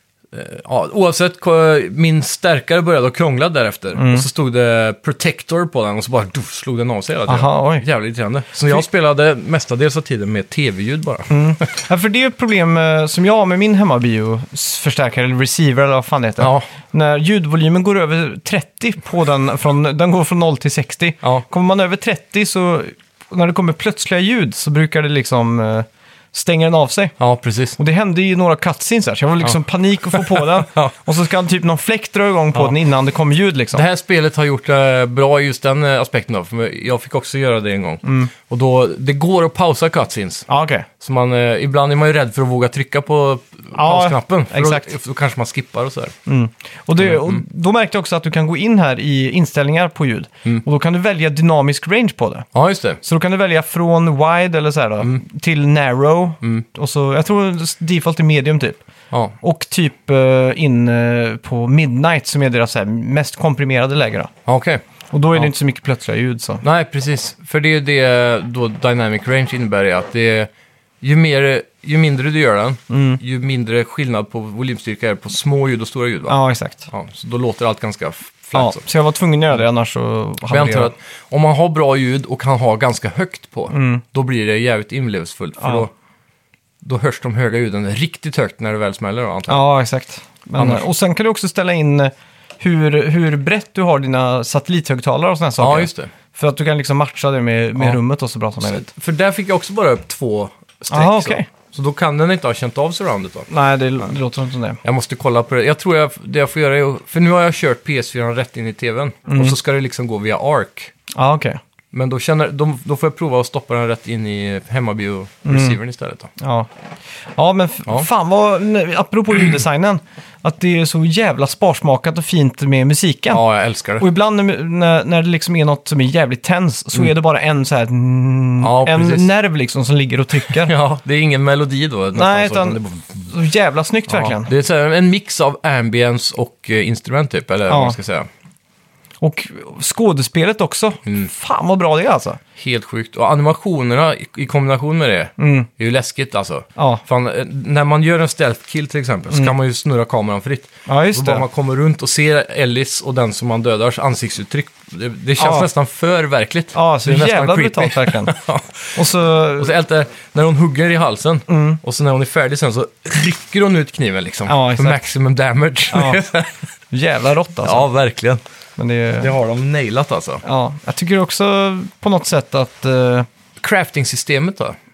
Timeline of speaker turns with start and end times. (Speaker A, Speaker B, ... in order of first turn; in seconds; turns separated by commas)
Speaker A: 0.3-11.3, Speaker B: 3.9-4.2, Speaker B: 7.3-7.8, Speaker B: 11.3-27.1, Speaker A: 16.4-16.7, Speaker A: 27.2-27.8, Speaker B: 27.8-33.8, Speaker A: 30.1-30.9, Speaker A: 33.7-40.5, Speaker B: 38.0-38.3, Speaker B: 40.5-40.9, Speaker A: 41.0-46.1, Speaker B: 43.7-44.9, Speaker B: 46.2-52.5, Speaker A: 47.0-47.4, Speaker A: 52.5-53.0, Speaker B: 53.0-58.8, Speaker B: 59.4-64.3, Speaker A: 64.5-64.8, Speaker B: 65.1-66.6, Speaker A: 66.6-70.5, Speaker A: 71.0-76.4, Speaker B: 72.9-73.2, Speaker B: 76.3-76.9, Speaker A: 76.9-78.8, Speaker B: 78.5-80.9, Speaker A: 80.5-85.9, Speaker B: 83.7-84.0, Speaker B: 85.6-85.9, Speaker A: 86.8-89.6, Speaker B: 89.5-98.9, Speaker A: 90.6-90.8, Speaker A: 95.6-96.1, Speaker A: 98.6-103.5, Speaker B: 100.9-101.5, Speaker B: 103.5-104.8, Speaker A: 104.8-110.9, Speaker B: 109.3-109.5, Speaker B: 111.1-111.6, Speaker A: 111.9-116.3, Speaker B: 115.4-115.8, Speaker B: 116.4-116.7, Speaker B: 117.3-123.4, Speaker A: 123.3-124.0, Speaker B: 124.0-130.7, Speaker A: 128.6-129.3, Speaker A: 130.5-133.2, Speaker B: 132.1-134.5, Speaker A: 134.1-138.3, Speaker B: 137.7-138.0, Speaker B: 139.2-142.4, Speaker A: 142.6-159.0, Speaker B: 145.4-145.7, Speaker B: 146.8-147.0, Speaker B: 150.8-151.4, Speaker B: 155.4-155.7, Speaker B: 156.7-158.3, Speaker B: 158.9-159.7, Speaker A: 159.6-166.6, Speaker B: 161.5-161.8, Speaker B: 164.5-165.1, Speaker B: 165.9-166.2, Speaker B: 166.9-167.9, Speaker A: 167.6-168.4, Speaker B: 168.8-169.3, Speaker A: 169.2-170.4, Speaker B: 170.4-173.3, Speaker A: 173.6-174.8